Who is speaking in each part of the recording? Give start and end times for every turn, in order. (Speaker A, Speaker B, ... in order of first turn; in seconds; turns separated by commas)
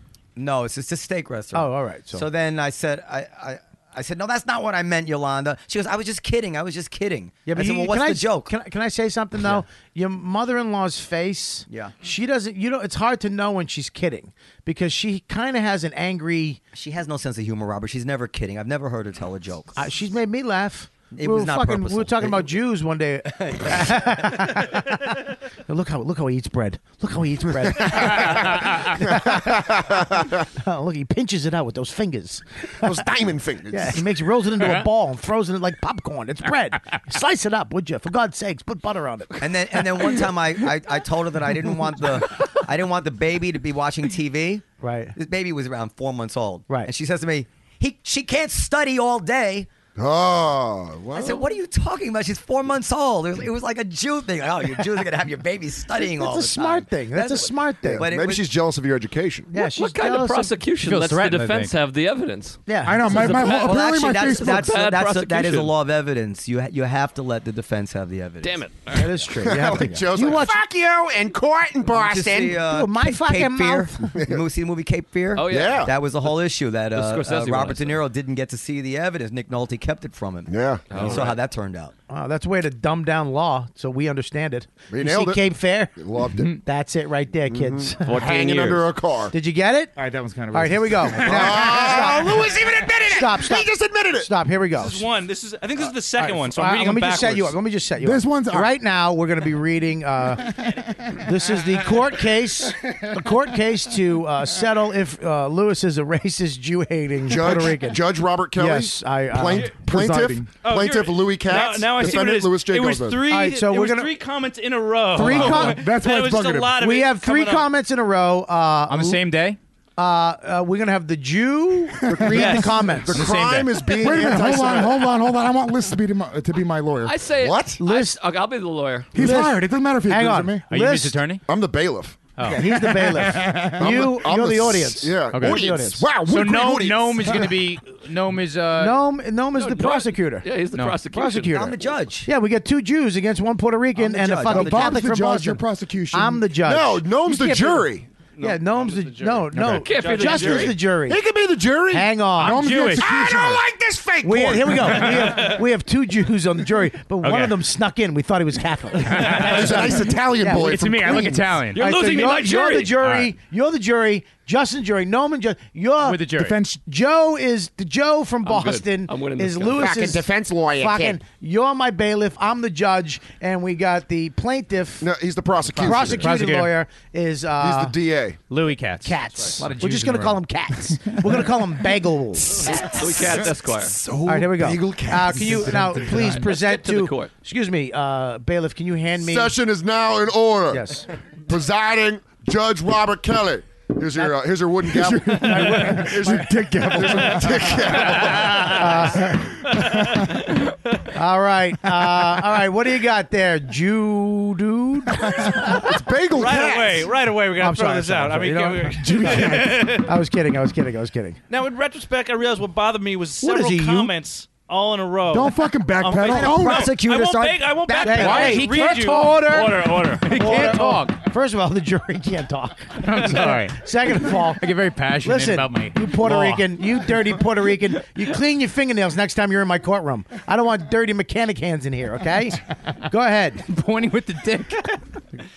Speaker A: 0.3-8.5, Speaker B: 1.5-2.3, Speaker B: 7.5-16.6, Speaker A: 11.7-11.9, Speaker A: 16.7-19.8, Speaker B: 19.8-29.9, Speaker A: 21.1-22.5, Speaker C: 27.9-28.5, Speaker C: 29.1-30.3, Speaker B: 30.6-32.9, Speaker C: 32.8-34.0, Speaker B: 33.7-39.5, Speaker A: 39.4-49.7, Speaker B: 44.8-45.1, Speaker C: 50.0-51.4, Speaker A: 51.1-58.5, Speaker B: 56.0-58.1, Speaker C: 57.9-59.5, Speaker B: 59.5-60.5, Speaker D: 59.5-62.6, Speaker E: 60.8-61.7, Speaker B: 62.7-63.5, Speaker F: 62.8-64.8, Speaker A: 63.1-68.6, Speaker D: 63.1-65.7, Speaker D: 68.4-69.6, Speaker B: 68.9-70.6, Speaker C: 69.4-72.6, Speaker A: 71.9-81.9, Speaker B: 72.6-74.2, Speaker C: 74.1-74.4, Speaker D: 75.3-75.9, Speaker C: 75.4-75.9, Speaker D: 76.9-78.0, Speaker C: 80.5-81.2, Speaker D: 80.9-81.4, Speaker B: 82.1-88.2, Speaker C: 84.9-86.6, Speaker C: 87.5-89.3, Speaker D: 88.0-88.8, Speaker B: 89.3-89.9, Speaker F: 90.0-91.7, Speaker B: 90.5-95.1, Speaker C: 91.2-94.3, Speaker G: 94.7-97.5, Speaker B: 96.1-109.8, Speaker F: 98.0-98.7, Speaker C: 107.2-113.3, Speaker F: 109.4-110.5, Speaker G: 110.5-117.7, Speaker B: 113.3-114.2, Speaker B: 115.1-115.9, Speaker F: 115.2-116.8, Speaker B: 116.7-119.3, Speaker E: 118.9-119.6, Speaker B: 120.0-123.4, Speaker F: 122.0-122.7, Speaker C: 122.0-125.0, Speaker G: 122.3-122.7, Speaker E: 123.1-123.8, Speaker B: 123.9-124.6, Speaker F: 124.0-127.1, Speaker D: 127.0-129.1, Speaker C: 127.3-127.8, Speaker B: 127.8-128.2, Speaker F: 129.1-130.6, Speaker B: 129.1-131.2, Speaker E: 130.7-131.4, Speaker C: 131.5-132.5, Speaker B: 132.4-136.1, Speaker F: 132.6-134.0, Speaker C: 133.8-137.5, Speaker E: 135.3-139.0, Speaker B: 138.8-140.5, Speaker D: 139.5-141.7, Speaker E: 140.7-141.0, Speaker B: 141.1-151.2, Speaker A: 141.5-142.3, Speaker A: 143.9-145.0, Speaker F: 144.4-146.5, Speaker C: 146.6-148.1, Speaker G: 148.3-150.9, Speaker F: 149.5-149.9, Speaker D: 149.7-150.8, Speaker C: 151.0-152.2, Speaker B: 151.9-152.6, Speaker E: 152.4-153.1, Speaker F: 152.4-153.6, Speaker C: 152.9-155.4, Speaker B: 154.2-161.2, Speaker E: 154.9-155.3, Speaker E: 157.2-157.6, Speaker E: 159.1-161.8, Speaker C: 159.2-161.5, Speaker D: 161.7-162.9, Speaker B: 161.7-175.1, Speaker G: 161.8-162.8, Speaker E: 163.0-163.3, Speaker E: 166.0-166.6, Speaker F: 166.4-166.8, Speaker D: 168.4-170.0, Speaker C: 169.8-171.2, Speaker C: 175.0-176.5, Speaker E: 175.8-176.7, Speaker B: 175.8-177.9, Speaker C: 177.6-178.4, Speaker E: 178.5-180.4, Speaker B: 179.0-182.9, Speaker C: 182.4-186.0, Speaker D: 182.7-183.9, Speaker B: 184.2-189.6, Speaker D: 186.3-187.3, Speaker C: 189.2-190.8, Speaker B: 190.7-191.1, Speaker C: 191.4-199.1, Speaker F: 194.9-197.8, Speaker B: 195.2-196.5, Speaker F: 198.3-198.7, Speaker B: 198.6-199.6, Speaker F: 199.8-200.5, Speaker G: 200.1-201.0, Speaker B: 201.1-205.9, Speaker F: 205.2-206.0, Speaker C: 205.9-207.0, Speaker G: 206.3-210.2, Speaker B: 207.5-211.4, Speaker F: 209.0-209.9, Speaker G: 211.5-220.8, Speaker B: 213.4-214.1, Speaker F: 215.3-217.0, Speaker A: 216.2-218.4, Speaker B: 218.0-224.6, Speaker E: 218.1-221.2, Speaker E: 223.0-226.7, Speaker B: 225.2-233.6, Speaker E: 233.7-235.0